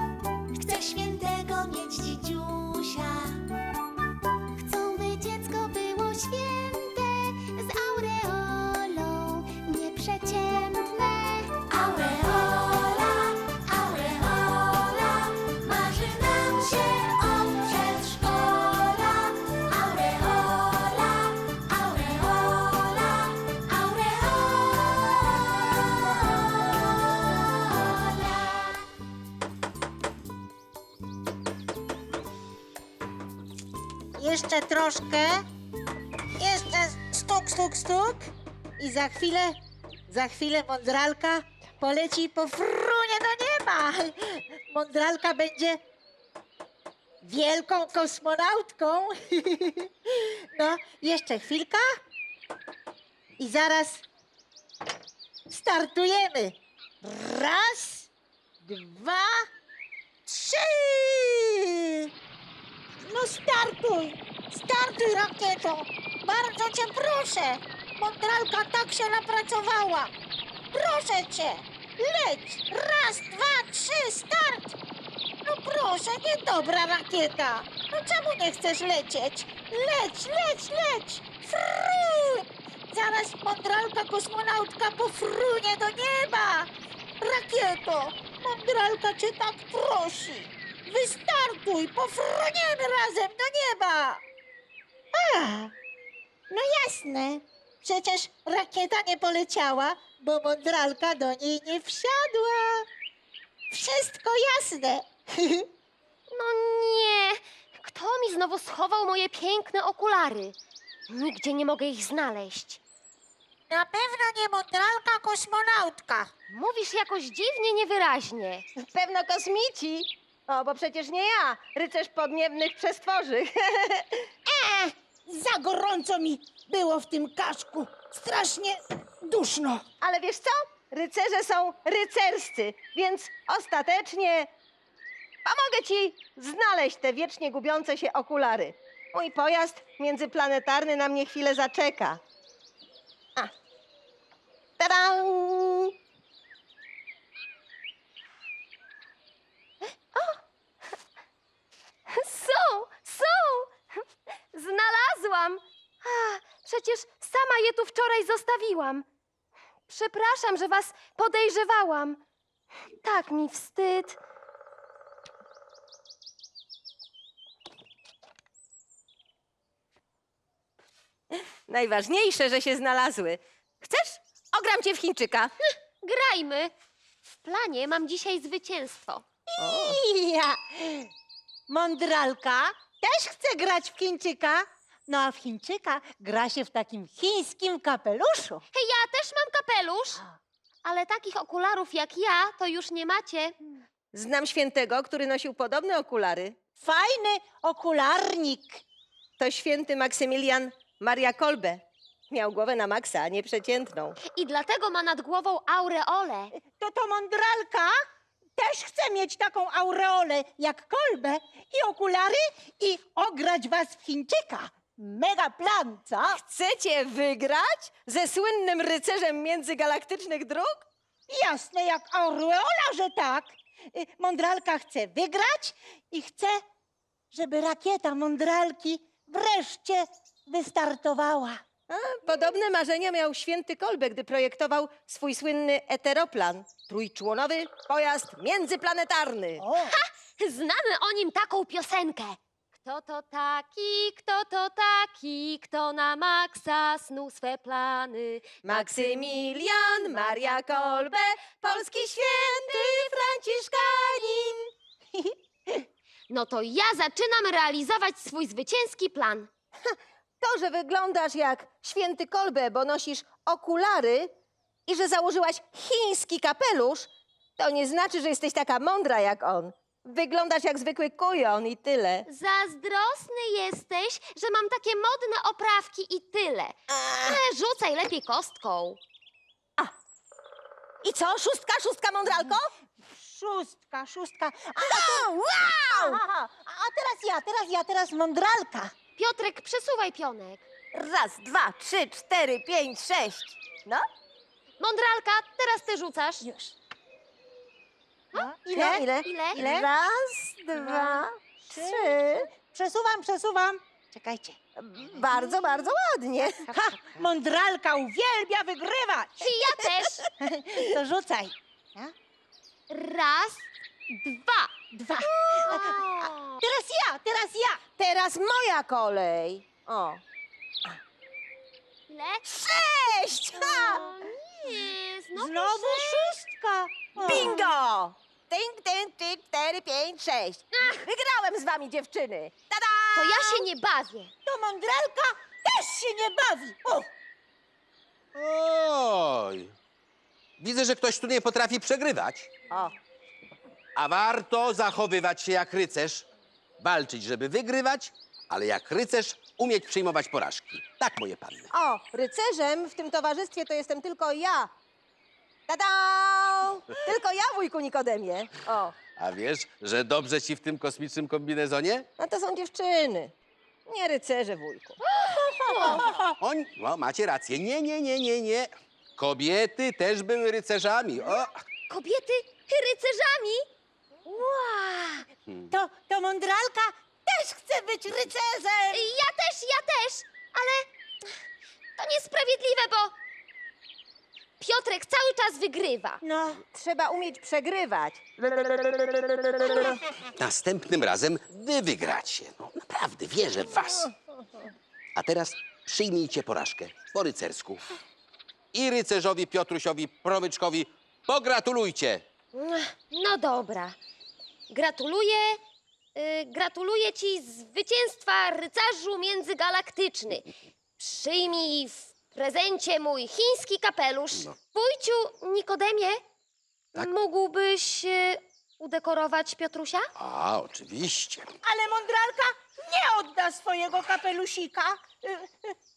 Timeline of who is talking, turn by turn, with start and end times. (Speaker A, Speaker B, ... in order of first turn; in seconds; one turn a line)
Speaker A: 0.6-2.2
Speaker B: 0.8-1.3
Speaker B: 2.2-2.9
Speaker A: 3.0-3.4
Speaker A: 4.6-28.8
Speaker B: 34.2-35.4
Speaker B: 36.4-39.6
Speaker B: 40.1-45.8
Speaker B: 47.2-49.9
Speaker B: 50.5-51.9
Speaker B: 53.4-54.0
Speaker B: 55.5-58.1
Speaker B: 58.6-59.5
Speaker B: 60.3-62.1
Speaker B: 63.0-70.1
Speaker B: 70.7-74.8
Speaker B: 75.5-94.2
Speaker B: 95.1-95.7
Speaker B: 96.5-102.8
Speaker B: 103.7-105.7
Speaker C: 106.3-110.5
Speaker C: 111.1-112.8
Speaker B: 113.7-116.3
Speaker C: 116.5-118.7
Speaker D: 118.9-124.3
Speaker B: 124.5-129.8
Speaker D: 130.0-134.5
Speaker D: 135.4-142.2
Speaker D: 144.8-145.9
Speaker C: 152.1-153.7
Speaker C: 154.5-159.0
Speaker C: 159.9-162.2
Speaker C: 163.0-164.2
Speaker D: 171.7-175.5
Speaker C: 176.0-176.7
Speaker C: 177.4-179.2
Speaker B: 179.6-181.1
Speaker D: 179.6-180.0
Speaker B: 181.7-188.6
Speaker C: 188.7-190.2
Speaker C: 190.8-193.6
Speaker D: 194.1-196.6
Speaker B: 196.8-198.8
Speaker D: 199.4-204.2
Speaker C: 204.3-206.5
Speaker B: 206.6-207.9
Speaker B: 208.6-216.4
Speaker D: 216.3-220.9
Speaker B: 221.3-226.6
Speaker B: 227.3-231.6
Speaker D: 231.9-239.7
Speaker B: 239.6-240.0
Speaker C: 239.7-248.5
Speaker D: 248.6-254.7
Speaker C: 252.7-253.0
Speaker C: 256.3-259.5
Speaker D: 259.9-264.3
Speaker D: 264.9-272.3
Speaker C: 272.3-279.0
Speaker D: 276.9-277.4
Speaker D: 281.0-282.7
Speaker B: 283.1-288.9
Speaker D: 284.8-286.4
Speaker C: 289.2-290.7
Speaker D: 290.9-294.0
Speaker C: 294.8-296.4
Speaker B: 296.4-296.7
Speaker B: 298.4-299.9
Speaker D: 298.6-302.5
Speaker C: 299.2-299.6
Speaker B: 300.7-304.6
Speaker D: 304.8-307.1
Speaker B: 306.5-309.5
Speaker C: 309.4-310.3
Speaker D: 309.5-310.2
Speaker B: 310.4-312.1
Speaker C: 312.9-313.7
Speaker B: 314.1-316.0
Speaker C: 315.6-316.6
Speaker B: 316.6-317.8
Speaker D: 318.0-320.2
Speaker C: 322.1-322.4
Speaker D: 322.5-324.1
Speaker C: 323.6-326.3
Speaker B: 325.4-327.7
Speaker D: 327.2-333.7
Speaker C: 333.1-334.3
Speaker B: 334.4-337.1
Speaker E: 338.4-339.8
Speaker E: 340.6-342.5
Speaker D: 342.7-343.0
Speaker E: 343.9-346.3
Speaker E: 346.8-351.7
Speaker D: 351.7-354.7
Speaker D: 355.7-358.9
Speaker E: 359.2-362.1
Speaker D: 362.2-363.3
Speaker D: 363.9-365.0
Speaker C: 365.1-366.0
Speaker B: 365.6-366.2
Speaker D: 365.8-366.1
Speaker E: 366.4-371.5
Speaker C: 371.9-373.6
Speaker C: 374.3-375.2
Speaker B: 375.7-379.1
Speaker C: 378.9-380.9
Speaker C: 382.0-383.1
Speaker C: 384.6-386.2
Speaker B: 386.2-386.6
Speaker D: 386.7-388.2
Speaker E: 388.6-394.1
Speaker E: 395.2-397.9
Speaker E: 398.7-402.2
Speaker C: 402.6-404.0
Speaker C: 404.7-405.6
Speaker C: 406.1-410.5
Speaker C: 411.0-416.2
Speaker C: 416.9-420.1
Speaker E: 420.2-421.5
Speaker B: 421.6-425.5